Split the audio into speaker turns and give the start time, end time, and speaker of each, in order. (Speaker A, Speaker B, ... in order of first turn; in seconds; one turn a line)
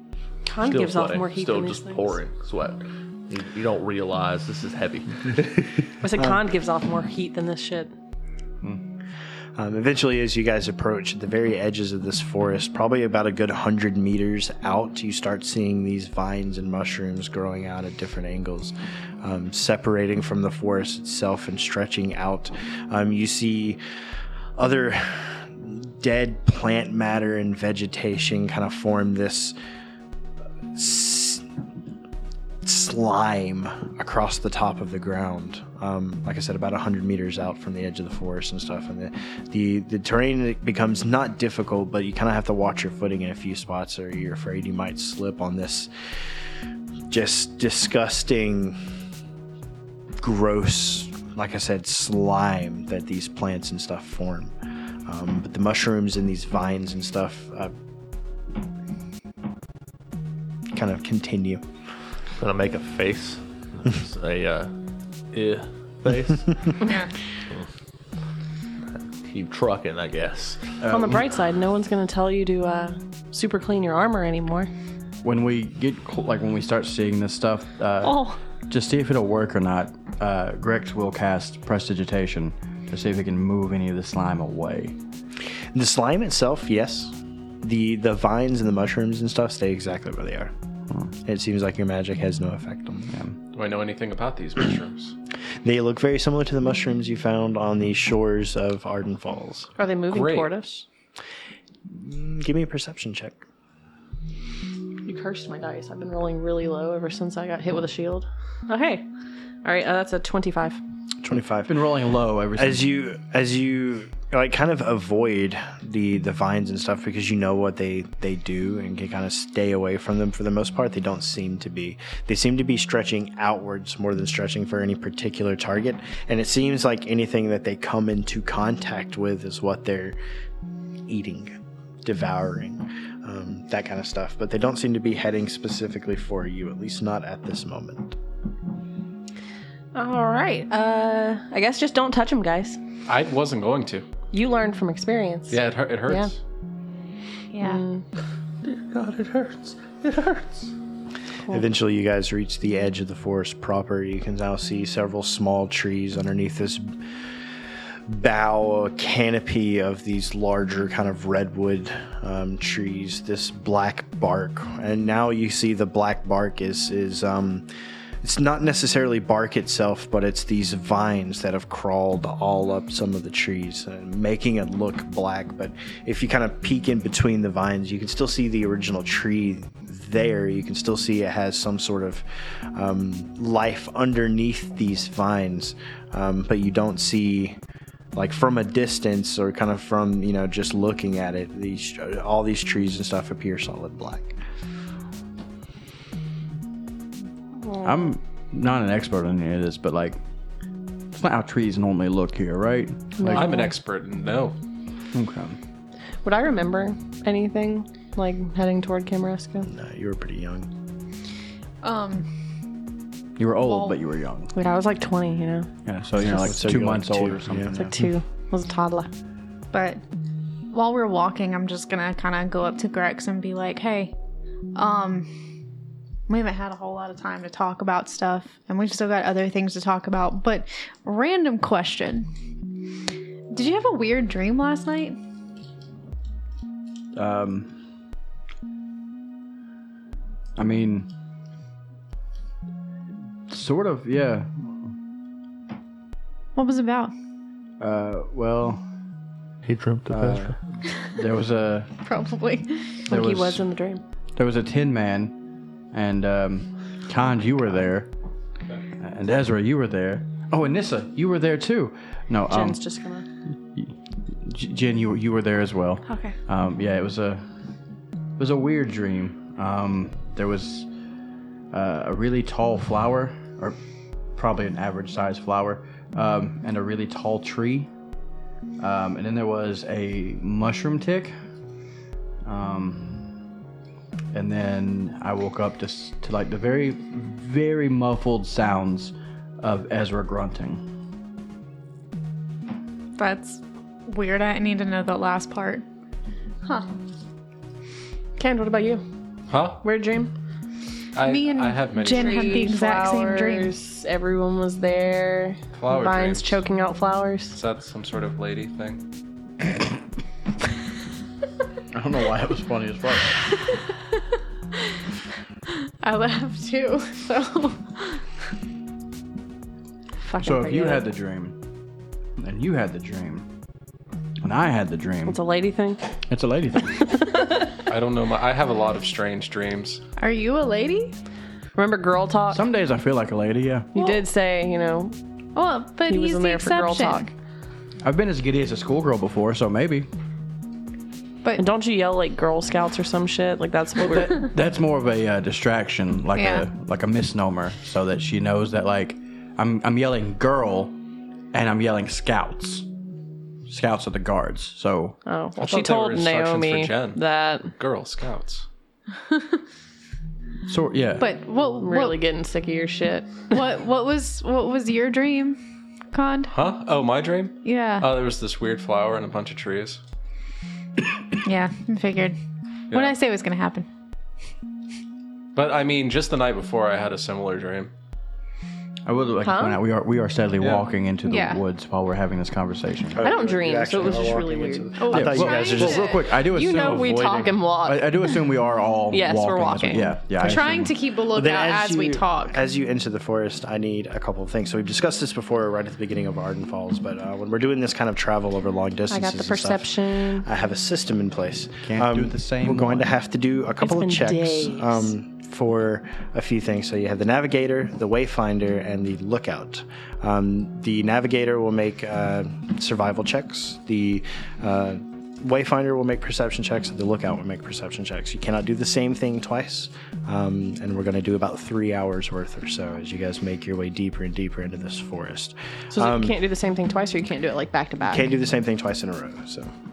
Speaker A: 0.5-2.2
Speaker B: 0.6-5.9
Speaker A: 6.0-7.9
Speaker C: 9.6-23.8
Speaker C: 24.6-29.6
Speaker C: 30.7-31.4
Speaker C: 32.6-45.9
Speaker C: 47.1-48.8
Speaker C: 50.2-54.5
Speaker C: 55.1-57.7
Speaker C: 60.7-61.6
Speaker B: 62.4-64.7
Speaker B: 65.3-66.7
Speaker D: 66.8-67.1
Speaker B: 69.2-70.7
Speaker E: 70.8-71.2
Speaker A: 70.9-74.7
Speaker E: 75.2-85.0
Speaker A: 78.0-78.4
Speaker C: 85.7-90.5
Speaker C: 91.3-93.1
Speaker F: 93.5-95.1
Speaker C: 95.6-99.7
Speaker A: 99.8-100.8
Speaker F: 100.1-100.5
Speaker C: 101.9-103.4
Speaker A: 105.0-109.0
Speaker A: 109.6-110.8
Speaker C: 111.2-111.8
Speaker E: 111.7-112.8
Speaker C: 112.6-130.2
Speaker C: 131.1-138.2
Speaker A: 139.9-142.8
Speaker F: 143.1-144.1
Speaker A: 144.3-146.3
Speaker F: 145.5-146.4
Speaker D: 147.5-147.8
Speaker A: 147.6-148.0
Speaker B: 148.6-150.7
Speaker C: 151.5-156.9
Speaker C: 158.1-167.7
Speaker C: 168.2-187.6
Speaker C: 188.2-194.4
Speaker A: 197.6-198.1
Speaker E: 197.8-200.2
Speaker E: 201.1-203.5
Speaker A: 203.2-203.7
Speaker F: 203.3-204.6
Speaker E: 205.1-205.6
Speaker A: 206.2-209.7
Speaker C: 209.7-210.7
Speaker D: 211.8-212.3
Speaker E: 213.4-214.5
Speaker D: 213.6-214.0
Speaker A: 214.5-215.7
Speaker E: 215.8-218.1
Speaker C: 216.2-217.9
Speaker A: 217.7-219.1
Speaker D: 219.7-220.0
Speaker D: 220.7-224.1
Speaker D: 224.8-225.3
Speaker D: 226.3-232.3
Speaker D: 233.5-235.2
Speaker E: 237.2-237.8
Speaker E: 240.6-241.1
Speaker E: 243.5-244.7
Speaker D: 246.6-247.1
Speaker E: 247.8-248.8
Speaker B: 249.7-250.6
Speaker E: 250.1-250.5
Speaker E: 251.1-251.9
Speaker D: 252.0-253.0
Speaker A: 253.1-254.0
Speaker E: 253.1-253.6
Speaker E: 254.4-255.3
Speaker E: 255.9-258.1
Speaker E: 259.0-262.8
Speaker A: 262.5-263.3
Speaker E: 263.7-267.4
Speaker D: 266.1-266.4
Speaker E: 268.4-270.9
Speaker E: 271.7-273.8
Speaker E: 274.4-277.9
Speaker E: 278.8-281.4
Speaker E: 282.4-283.3
Speaker E: 284.3-290.8
Speaker D: 293.2-295.9
Speaker A: 298.4-299.0
Speaker F: 299.5-299.8
Speaker A: 299.8-300.3
Speaker F: 301.1-302.7
Speaker D: 301.2-303.7
Speaker A: 302.1-307.6
Speaker F: 305.8-306.6
Speaker F: 307.5-309.0
Speaker E: 311.9-313.4
Speaker D: 316.0-318.2
Speaker A: 320.2-321.0
Speaker E: 320.4-321.6
Speaker E: 322.4-323.5
Speaker E: 324.4-325.4
Speaker A: 325.3-326.0
Speaker E: 326.3-327.1
Speaker A: 327.0-327.8
Speaker F: 327.9-330.0
Speaker D: 330.2-331.1
Speaker A: 331.8-332.6
Speaker E: 332.5-333.9
Speaker A: 333.9-335.1
Speaker D: 335.6-337.3
Speaker A: 336.1-337.3
Speaker E: 338.0-340.1
Speaker A: 341.6-344.5
Speaker E: 344.1-350.9
Speaker D: 346.4-346.6
Speaker E: 351.5-352.9
Speaker E: 353.7-355.2
Speaker A: 355.3-357.7
Speaker F: 355.6-357.2
Speaker F: 357.8-358.7
Speaker E: 360.7-361.3
Speaker D: 361.2-362.2
Speaker A: 361.8-363.6
Speaker D: 363.5-365.6
Speaker D: 366.1-366.5
Speaker F: 366.5-370.0
Speaker D: 367.6-368.2
Speaker D: 371.4-372.4
Speaker F: 372.9-373.2
Speaker D: 372.9-373.9
Speaker F: 375.6-377.9
Speaker E: 379.1-383.2
Speaker A: 379.4-379.8
Speaker F: 380.6-380.9
Speaker D: 381.2-381.6
Speaker C: 383.1-386.2
Speaker A: 383.2-385.0
Speaker D: 385.0-386.2
Speaker E: 385.1-390.9
Speaker A: 386.4-388.4
Speaker A: 389.1-390.1
Speaker D: 390.4-392.6
Speaker C: 391.3-426.4
Speaker A: 399.1-400.5
Speaker E: 401.8-403.1
Speaker A: 403.8-405.1
Speaker A: 425.9-428.3
Speaker C: 428.1-429.7